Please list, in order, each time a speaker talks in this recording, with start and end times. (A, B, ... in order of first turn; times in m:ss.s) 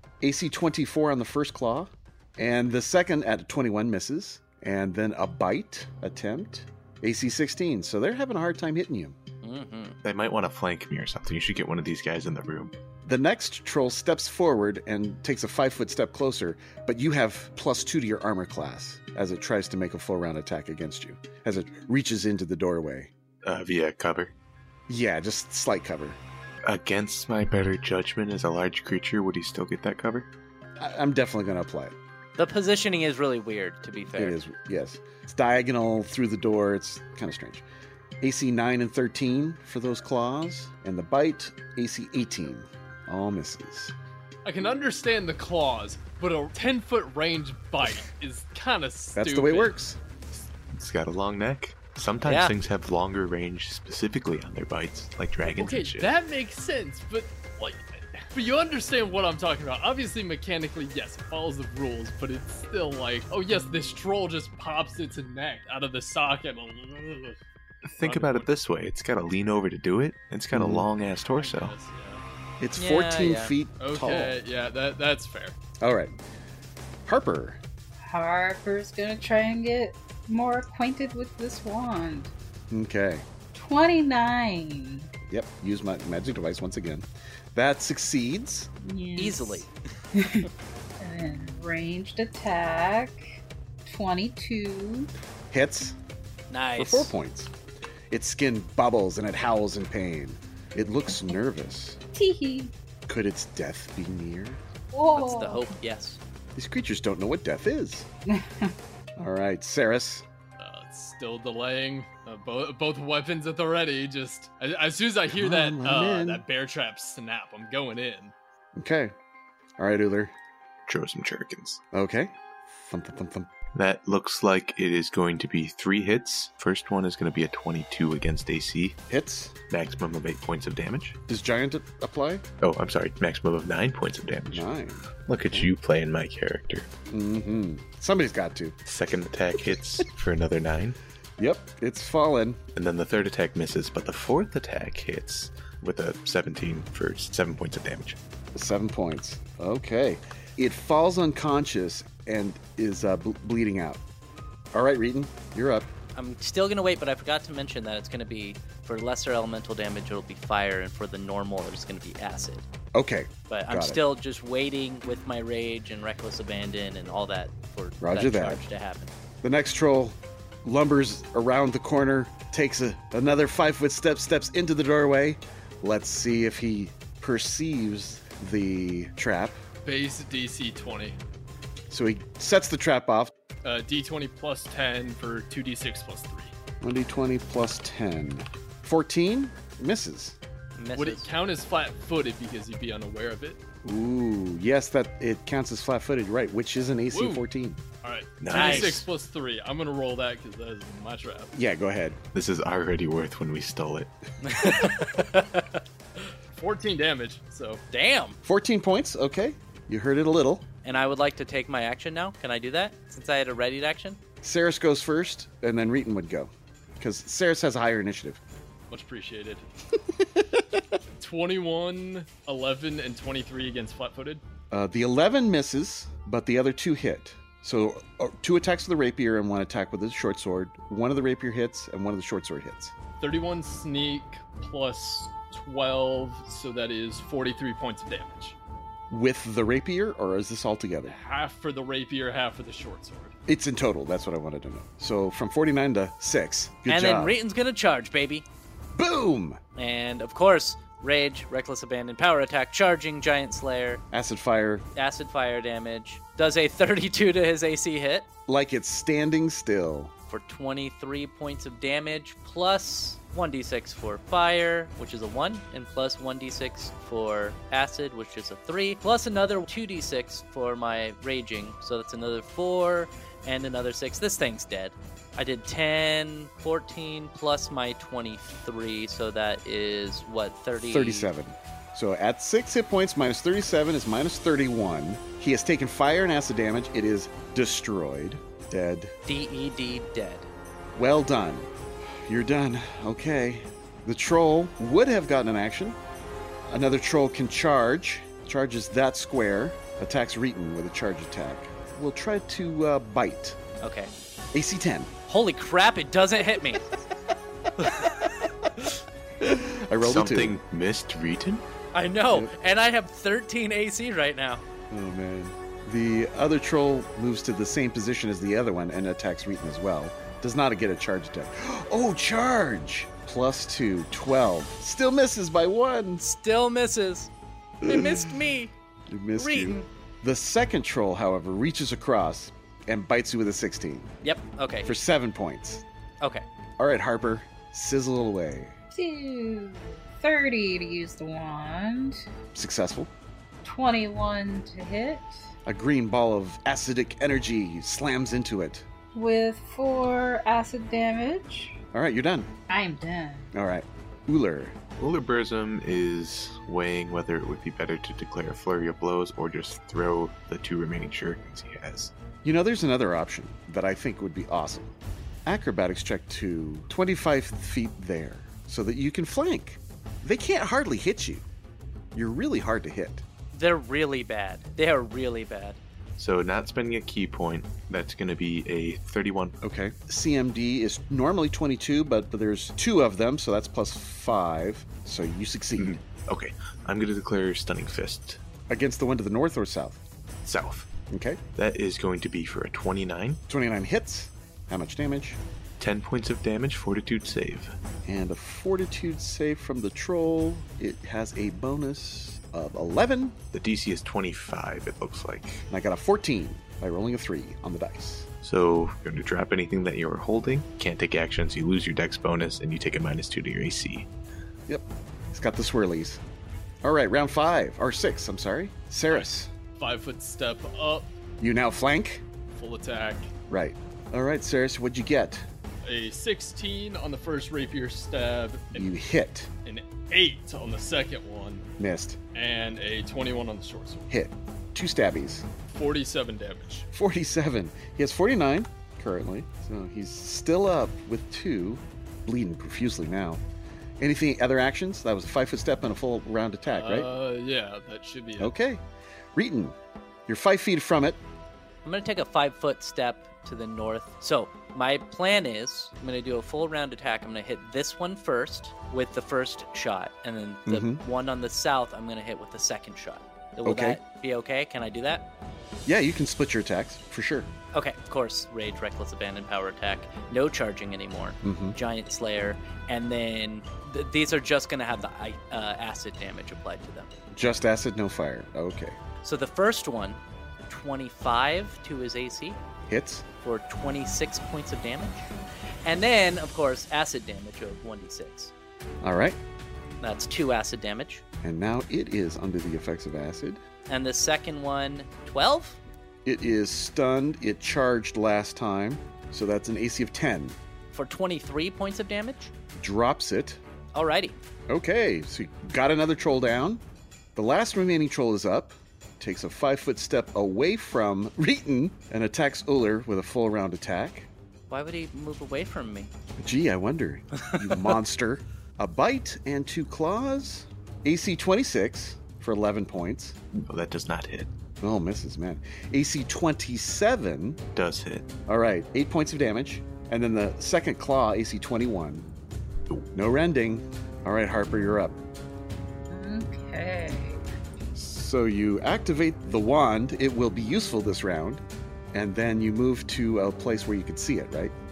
0:00.2-0:09.2 A
0:09.4-0:10.0 B
0:10.0-0:12.8 C
0:13.0-0:23.1 A
0:23.4-0:24.3 C
0:24.9-0:26.2 A
0:26.6-0:30.3 C
0:30.8-0:32.0 A
0:32.4-0:34.4 B
0:34.2-0:37.6 A
0:38.2-0:44.0 A
0:44.4-0:49.8 D
0:49.2-0:50.0 A
0:50.7-0:56.1 C
0:52.2-0:52.5 B
0:55.5-1:07.4 D
1:07.8-1:11.7 C
1:08.0-1:08.5 D
1:10.5-1:10.9 A
1:11.3-1:12.2 D
1:12.6-1:14.4 A
1:12.8-1:13.6 B
1:13.8-1:15.6 D
1:15.8-1:16.2 A
1:17.1-1:17.6 A
1:18.1-1:22.3 E
1:22.7-1:23.3 A
1:23.5-1:25.1 E
1:25.3-1:28.7 A
1:28.8-1:33.2 E
1:29.2-1:29.7 B
1:33.8-1:35.1 E
1:35.5-1:36.0 A
1:36.5-1:37.2 B
1:36.8-1:37.5 A
1:38.1-1:42.0 A
1:42.1-1:42.7 E
1:43.1-1:44.6 A
1:44.9-1:45.8 E
1:45.1-1:46.2 B
1:46.6-1:48.1 A
1:48.3-1:48.7 E
1:49.2-1:50.3 A
1:50.6-1:58.3 D
1:55.3-1:56.4 A
1:58.8-1:59.1 A
1:59.8-2:00.3 A
2:00.9-2:01.8 C
2:01.9-2:03.5 A
2:03.7-2:09.0 C
2:09.1-2:09.6 A
2:09.7-2:11.2 C
2:11.3-2:12.4 A
2:12.6-2:14.7 C
2:14.5-2:15.7 A
2:15.2-2:16.9 C
2:17.1-2:18.8 A
2:18.9-2:21.0 C
2:21.4-2:22.6 A
2:22.8-2:28.2 C
2:28.6-2:34.0 A
2:34.7-2:35.9 A
2:36.2-2:42.7 B
2:42.9-2:44.0 A
2:43.5-2:49.1 B
2:48.0-2:48.6 A
2:49.4-2:59.6 A
2:59.8-3:01.2 D
3:01.9-3:03.3 A
3:03.6-3:06.5 D
3:06.8-3:10.4 A
3:10.8-3:11.3 B
3:11.0-3:13.6 D
3:13.8-3:17.8 A
3:17.1-3:17.4 D
3:18.0-3:21.5 D
3:18.4-3:19.0 C
3:18.5-3:19.0 B
3:21.5-3:22.2 A
3:22.3-3:24.1 C
3:24.4-3:25.8 B
3:26.5-3:27.8 D
3:27.9-3:28.4 B
3:28.4-3:30.7 A
3:30.8-3:34.2 B
3:34.4-3:38.4 A
3:38.9-3:39.6 D
3:41.2-3:44.4 D
3:44.7-3:52.9 A
3:53.2-3:58.6 D
3:59.1-4:01.2 A
4:01.1-4:03.3 D
4:03.5-4:07.4 A
4:06.9-4:08.4 B
4:09.0-4:09.6 A
4:09.8-4:14.0 B
4:14.1-4:14.8 A
4:15.0-4:18.3 B
4:18.5-4:20.1 A
4:20.3-4:41.3 B
4:40.8-4:49.1 A
4:49.3-4:50.5 B
4:51.0-4:56.0 A
4:56.7-5:03.6 A
5:03.8-5:04.1 B
5:04.5-5:05.1 A
5:05.3-5:06.8 B
5:09.4-5:10.6 A
5:10.0-5:11.6 C
5:11.9-5:14.6 B
5:14.9-5:26.3 A
5:26.2-5:27.3 B
5:27.8-5:28.4 A
5:27.8-5:28.7 B
5:29.1-5:34.1 A
5:29.4-5:29.9 B
5:34.2-5:35.0 B
5:34.8-5:35.8 A
5:36.8-5:38.8 A
5:38.9-5:42.2 E
5:42.5-5:43.1 A
5:43.6-5:45.4 E
5:45.7-5:48.8 A
5:49.1-5:51.8 E
5:51.9-5:52.5 A
5:52.7-5:53.5 E
5:53.5-5:54.8 A
5:55.0-6:02.1 C
6:02.4-6:04.9 A
6:05.5-6:11.4 A
6:12.1-6:13.2 A
6:13.5-6:15.8 B
6:16.2-6:19.6 C
6:19.6-6:26.0 A
6:25.8-6:28.4 C
6:28.7-6:30.0 A
6:30.4-6:30.9 C
6:31.1-6:31.4 A
6:31.6-6:33.4 C
6:33.5-6:35.4 A
6:35.8-6:37.7 C
6:38.1-6:43.4 A
6:43.5-6:45.6 C
6:45.7-6:48.3 A
6:48.4-6:54.1 C
6:54.7-6:56.2 A
6:56.8-6:59.5 A
6:59.8-7:01.1 D
7:01.4-7:02.2 A
7:02.5-7:03.3 D
7:03.5-7:05.5 A
7:05.8-7:08.9 D
7:08.7-7:09.5 A
7:09.7-7:11.7 D
7:11.8-7:12.2 A
7:12.3-7:14.1 D
7:14.1-7:15.5 A
7:15.7-7:16.9 D
7:16.9-7:23.4 A
7:24.0-7:27.1 A
7:26.7-7:28.5 D
7:28.4-7:28.8 A
7:29.4-7:29.8 A
7:30.3-7:31.2 A
7:31.8-7:45.3 B
7:40.7-7:41.0 A
7:43.6-7:44.0 A
7:45.9-7:47.5 A
7:47.7-7:57.1 B
7:51.4-7:51.8 A
7:57.3-7:59.0 A
7:59.2-8:02.6 B
8:02.9-8:03.2 A
8:03.4-8:05.3 B
8:05.8-8:08.5 B
8:09.0-8:09.4 A
8:10.0-8:11.2 B
8:11.4-8:13.6 A
8:13.9-8:15.8 B
8:16.2-8:20.6 A
8:20.9-8:22.5 B
8:22.8-8:23.6 A
8:24.0-8:24.4 B
8:24.7-8:26.8 A
8:27.4-8:34.3 A
8:34.7-8:36.1 B
8:36.4-8:43.4 A
8:43.6-8:44.5 C
8:44.8-8:47.6 A
8:47.7-8:48.3 C
8:48.5-8:52.3 A
8:53.2-8:55.2 A
8:56.1-8:57.4 E
8:58.0-9:04.7 A